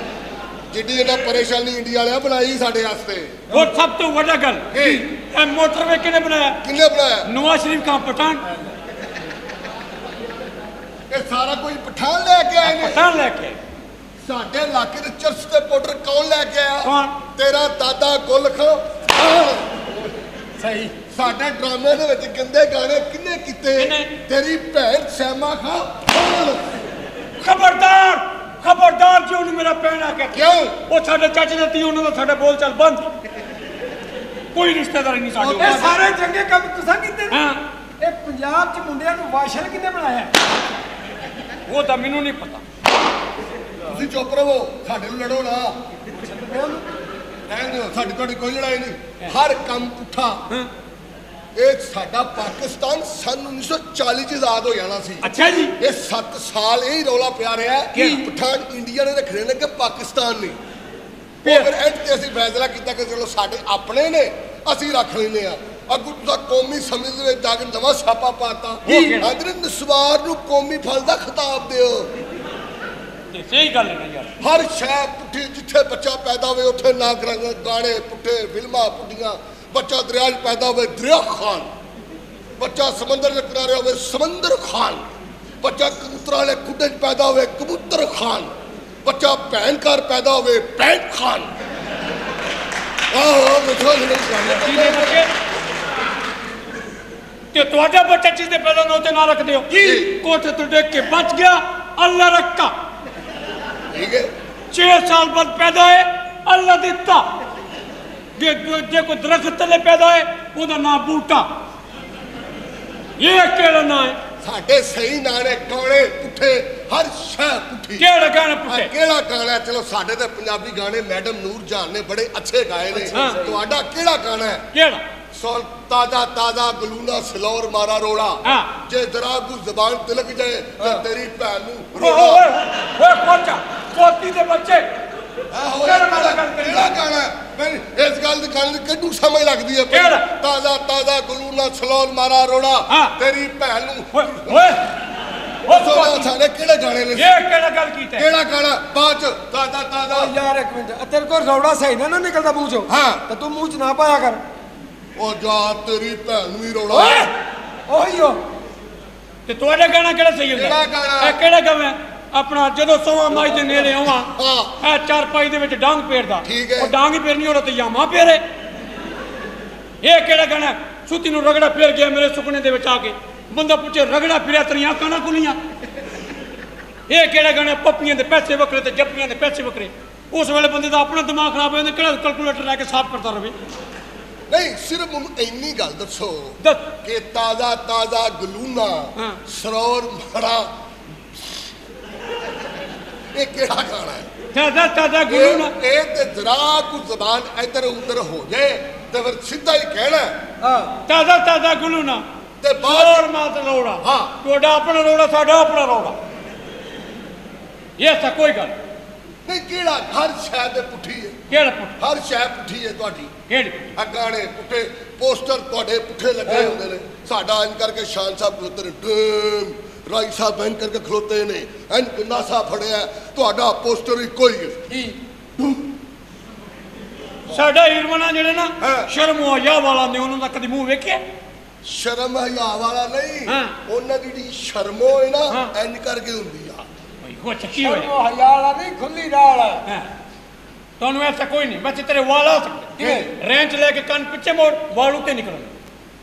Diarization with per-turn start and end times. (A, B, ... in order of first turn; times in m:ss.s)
0:00.7-0:03.5 A
0:03.5-0:06.6 B
0:04.7-0:05.1 A
0:06.6-0:07.3 A
0:07.2-0:08.4 B
0:11.1-0:13.0 A
0:12.6-0:13.6 B
0:14.2-0:19.7 A
0:16.8-0:17.2 B
0:20.6-0:20.9 C
0:21.1-0:26.6 A
0:23.8-0:24.1 B
0:27.4-0:33.1 B
0:30.3-0:30.8 A
0:34.5-0:36.0 B
0:35.4-0:36.0 A
0:35.6-0:37.4 C
0:37.3-0:37.6 B
0:38.0-0:40.3 C
0:41.7-0:42.6 B
0:43.9-0:45.7 A
0:46.2-0:46.8 C
0:47.5-0:50.4 A
0:51.6-0:55.3 A
0:55.2-0:55.8 B
0:55.8-1:00.6 A
0:57.9-0:58.3 B
1:01.4-1:12.1 A
1:01.4-1:01.7 B
1:08.9-1:09.3 B
1:13.3-1:14.3 B
1:14.4-1:21.7 A
1:22.6-1:25.0 A
1:25.6-1:28.5 A
1:29.0-1:31.5 A
1:33.1-1:35.3 A
1:34.5-1:35.3 B
1:37.5-1:42.7 B
1:39.7-1:40.0 A
1:43.9-1:44.3 A
1:44.7-1:47.3 B
1:48.4-1:51.5 B
1:53.2-1:54.2 B
1:54.4-1:58.1 A
1:58.0-1:58.9 B
1:58.7-2:04.7 A
2:03.0-2:03.6 C
2:03.1-2:03.5 B
2:04.7-2:05.0 B
2:05.3-2:12.5 A
2:08.4-2:08.7 B
2:12.0-2:14.8 B
2:15.5-2:24.8 A
2:15.8-2:16.9 B
2:19.9-2:20.2 B
2:22.9-2:23.2 B
2:24.1-2:24.9 B
2:25.6-2:26.3 B
2:25.7-2:27.4 A
2:27.2-2:28.3 B
2:28.2-2:30.3 A
2:30.1-2:34.4 C
2:32.9-2:33.2 A
2:35.2-2:37.3 A
2:36.9-2:37.3 C
2:37.9-2:38.4 C
2:39.5-2:48.4 B
2:40.5-2:41.4 A
2:43.8-2:44.8 A
2:46.4-2:46.9 A
2:50.0-2:55.6 B
2:57.1-3:03.6 B
3:04.5-3:10.7 A
3:06.6-3:06.9 B
3:13.3-3:14.3 A
3:14.5-3:15.7 B
3:15.3-3:20.4 A
3:20.6-3:20.9 C
3:21.1-3:22.2 B
3:22.6-3:23.3 A
3:22.8-3:26.2 B
3:24.0-3:24.3 A
3:28.0-3:28.8 B
3:29.5-3:31.4 A
3:31.5-3:32.0 B
3:32.0-3:33.3 A
3:33.5-3:33.9 B
3:34.0-3:44.8 A
3:45.6-3:45.9 A
3:47.5-3:51.2 B
3:48.8-3:49.1 A
3:51.8-3:56.8 A
3:53.5-3:53.7 B
3:57.2-3:58.1 B
3:57.7-3:59.8 C
4:01.0-4:05.7 B
4:03.0-4:03.3 C
4:03.0-4:03.3 A